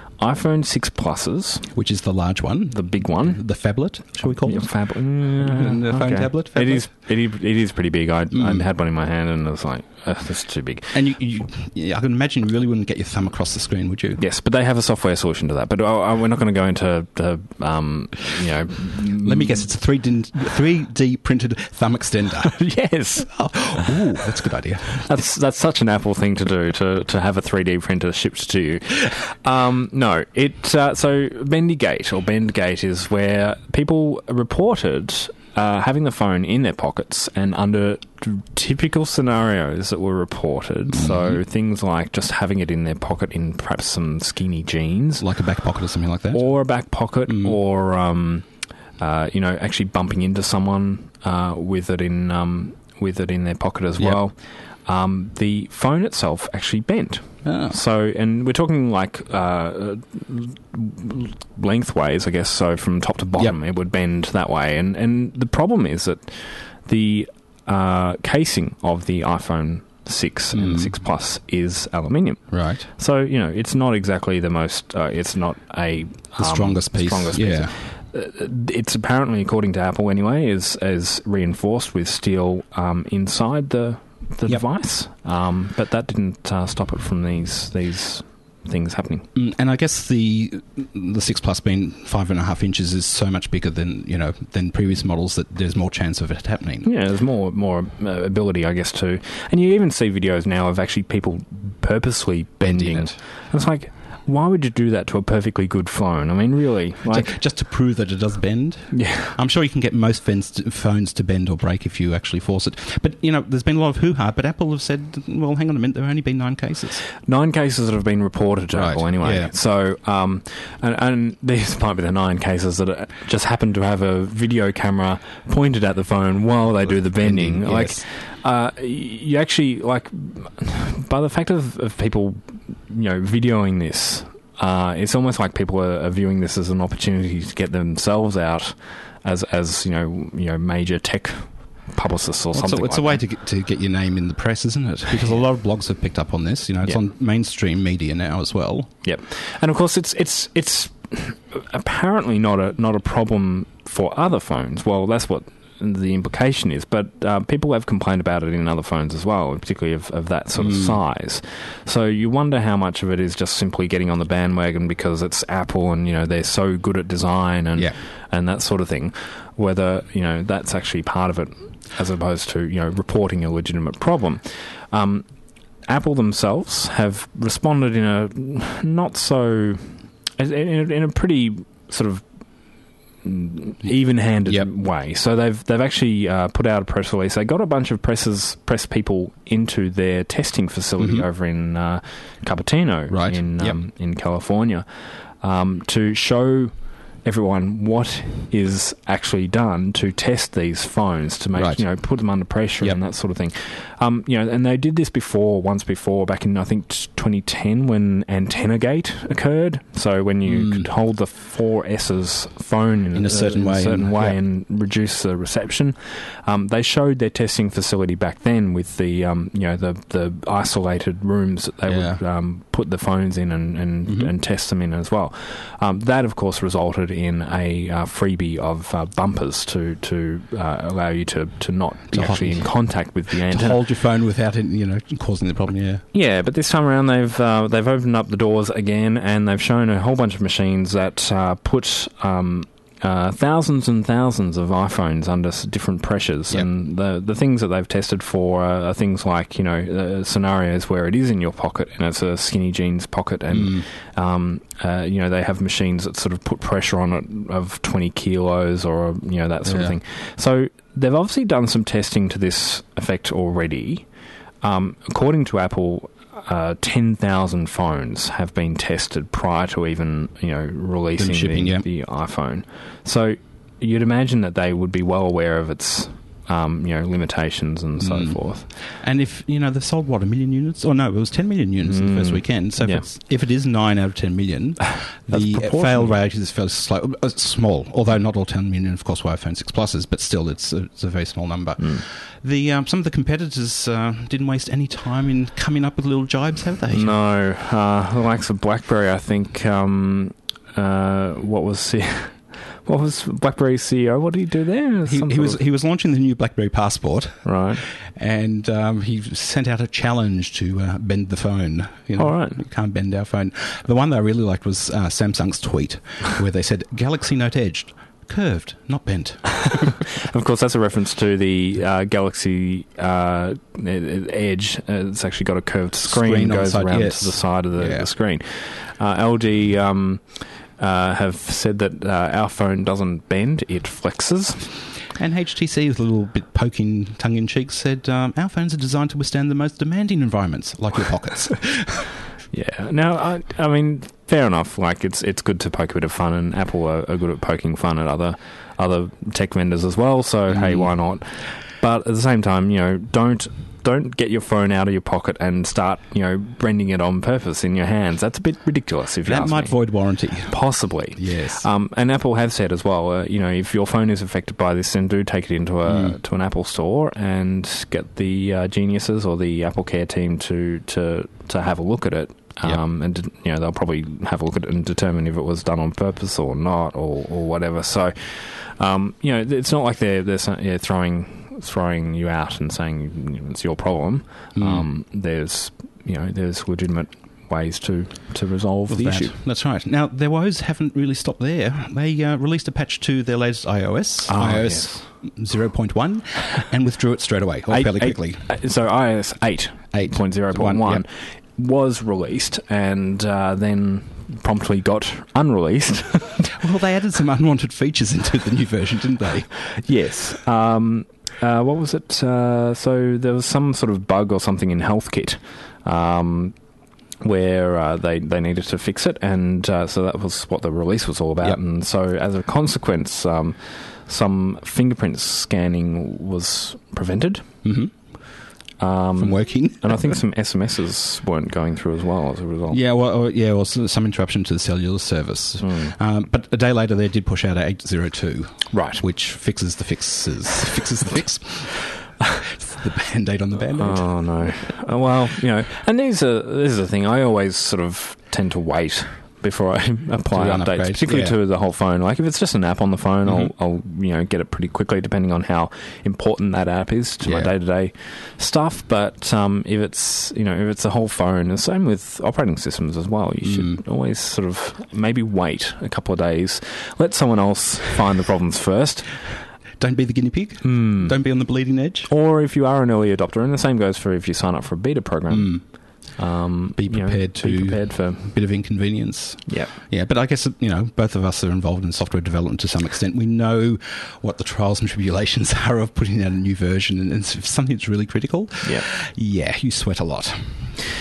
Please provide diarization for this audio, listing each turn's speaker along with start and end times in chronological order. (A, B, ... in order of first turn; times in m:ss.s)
0:00.2-0:01.7 A
0:01.7-0:06.9 B
0:02.7-0:03.4 A
0:04.2-0:10.9 A
0:08.3-0:08.6 B
0:10.9-0:14.2 B
0:14.2-0:19.7 A
0:19.2-0:22.6 B
0:22.5-0:24.0 A
0:23.3-0:25.0 B
0:25.0-0:45.3 A
0:40.9-0:41.4 B
0:45.2-0:46.4 B
0:46.3-0:48.5 A
0:47.3-0:47.6 B
0:49.0-1:29.3 A
0:57.4-0:57.8 B
1:10.5-1:11.0 B
1:12.5-1:12.9 B
1:16.4-1:17.8 B
1:29.4-1:36.9 B
1:36.8-1:47.3 A
1:42.6-1:43.2 B
1:47.1-1:57.1 B
1:48.9-1:49.4 A
1:57.2-2:23.2 A
1:58.7-1:59.5 B
2:07.2-2:08.0 B
2:22.5-2:28.9 B
2:29.0-2:55.3 A
2:40.6-2:41.0 B
2:55.9-3:02.2 A
3:03.2-3:14.9 A
3:11.0-3:11.3 B
3:13.1-3:13.8 B
3:15.4-3:16.7 A
3:17.2-3:53.8 A
3:21.6-3:21.8 B
3:30.5-3:30.9 B
3:33.2-3:34.4 B
3:41.9-3:42.2 B
3:44.1-3:44.3 B
3:52.1-3:52.7 B
3:53.3-3:56.0 B
3:56.1-4:24.1 A
4:13.5-4:13.9 B
4:19.6-4:20.0 B
4:24.6-4:38.7 A
4:31.2-4:31.9 B
4:38.0-4:57.2 B
4:41.9-4:43.0 A
4:45.3-4:46.2 A
4:56.9-5:05.6 A
5:05.1-5:20.0 B
5:07.4-5:07.8 A
5:12.2-5:12.6 A
5:20.2-5:34.7 A
5:26.0-5:28.1 B
5:35.2-5:42.1 B
5:42.5-5:59.8 A
5:50.5-5:50.9 B
5:59.2-6:00.6 B
6:00.5-6:29.4 A
6:01.2-6:01.6 B
6:05.9-6:06.2 B
6:24.6-6:24.9 B
6:28.9-6:38.5 B
6:34.3-6:35.0 A
6:37.7-6:46.5 A
6:39.9-6:41.0 B
6:46.5-6:49.6 B
6:49.7-6:56.6 A
6:57.2-7:07.5 A
7:07.6-7:07.9 B
7:08.8-7:12.8 A
7:09.2-7:10.2 B
7:12.7-7:24.0 B
7:15.6-7:16.0 A
7:18.7-7:19.0 A
7:23.8-7:49.2 A
7:30.3-7:31.4 B
7:33.2-7:33.5 B
7:37.2-7:37.5 B
7:43.4-7:43.8 B
7:49.8-7:52.1 B
7:50.6-7:51.2 A
7:52.1-7:55.6 A
7:55.3-7:55.6 B
7:56.2-7:58.4 A
7:56.8-8:10.7 B
7:59.5-7:59.7 A
8:08.6-8:08.9 A